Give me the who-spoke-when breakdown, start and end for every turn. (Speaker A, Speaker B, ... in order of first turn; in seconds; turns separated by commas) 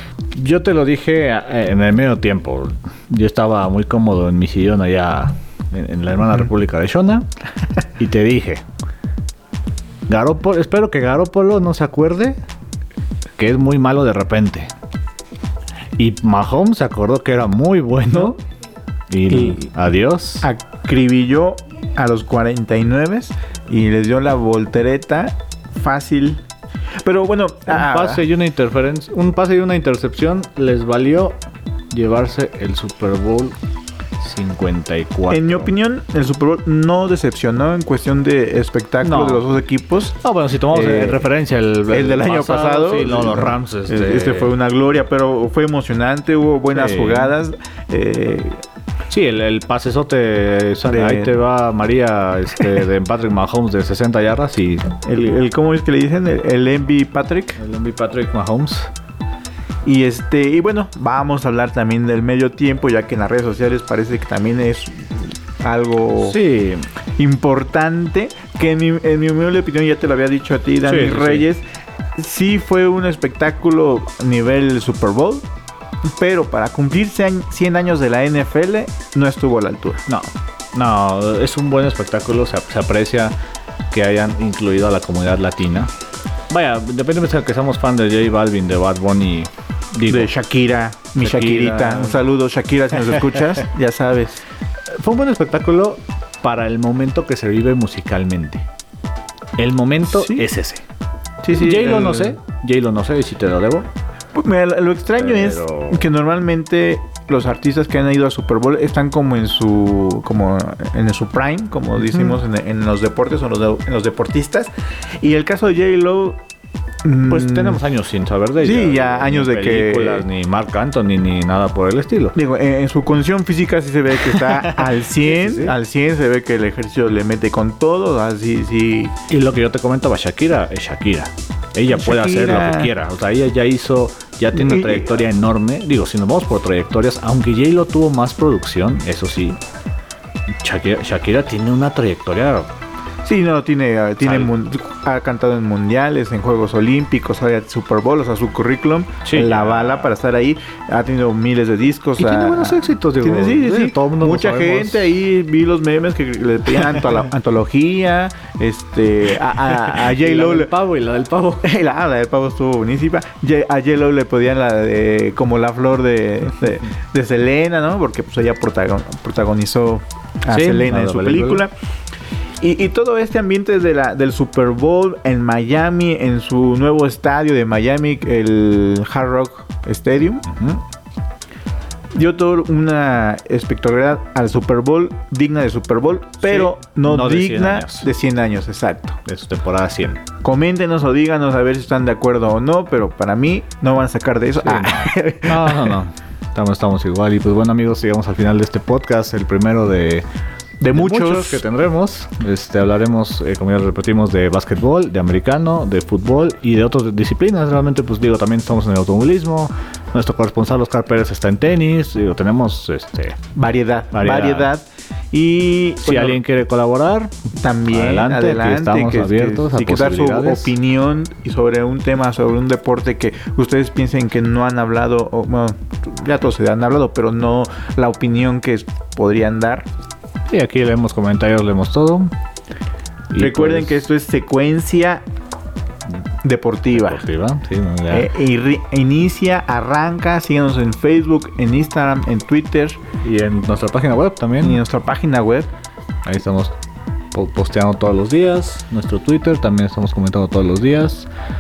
Speaker A: 0.3-7.3, Speaker A: 8.0-8.6, Speaker A: 10.1-12.4, Speaker A: 13.4-14.7, Speaker A: 16.0-18.4, Speaker A: 19.1-20.5, Speaker B: 19.3-19.7, Speaker B: 20.4-26.4, Speaker B: 27.0-28.2, Speaker A: 27.7-31.4, Speaker A: 31.9-33.5, Speaker A: 34.2-35.7, Speaker B: 35.3-40.2, Speaker A: 39.0-39.4, Speaker A: 40.2-44.5, Speaker B: 40.7-41.3, Speaker B: 41.9-48.6, Speaker A: 46.7-47.3, Speaker A: 49.1-54.9, Speaker B: 50.8-51.3, Speaker B: 55.0-57.6, Speaker A: 57.6-58.9, Speaker B: 59.8-66.4, Speaker A: 66.2-66.9, Speaker B: 67.2-75.4, Speaker A: 70.8-71.5, Speaker B: 76.1-80.0, Speaker A: 80.1-83.3, Speaker A: 83.9-85.9, Speaker A: 86.5-90.3, Speaker B: 90.1-94.4, Speaker A: 91.2-92.2, Speaker A: 95.0-98.6, Speaker A: 99.6-100.8, Speaker B: 100.0-100.4, Speaker B: 101.4-102.4, Speaker A: 101.5-103.9, Speaker B: 104.3-114.7, Speaker A: 105.2-106.0, Speaker A: 112.0-112.4, Speaker B: 115.2-116.4, Speaker B: 117.0-117.8, Speaker A: 117.3-122.3, Speaker B: 118.6-120.2, Speaker B: 122.3-129.2, Speaker A: 124.2-125.7, Speaker A: 129.3-139.6, Speaker B: 131.9-132.9, Speaker B: 134.5-135.2, Speaker A: 140.6-142.7, Speaker B: 143.2-160.7, Speaker A: 144.2-144.5, Speaker A: 149.2-150.1, Speaker A: 152.2-155.1, Speaker A: 159.7-161.7, Speaker B: 161.6-171.7, Speaker A: 170.5-171.6, Speaker B: 172.6-180.5, Speaker A: 180.5-180.8, Speaker B: 182.1-189.2, Speaker A: 186.4-188.1, Speaker A: 189.2-190.2, Speaker B: 190.4-196.0, Speaker A: 194.6-200.2, Speaker B: 200.8-201.6, Speaker A: 200.9-213.4, Speaker B: 213.5-216.4, Speaker A: 214.1-214.7, Speaker A: 216.0-217.3, Speaker B: 217.5-229.9, Speaker A: 217.9-220.7, Speaker A: 230.5-232.3, Speaker A: 233.3-234.0, Speaker B: 233.3-235.2, Speaker B: 236.4-237.2, Speaker A: 236.9-238.3, Speaker B: 238.1-243.0, Speaker A: 243.2-244.8, Speaker B: 244.6-245.7, Speaker A: 246.2-246.7, Speaker A: 247.3-251.3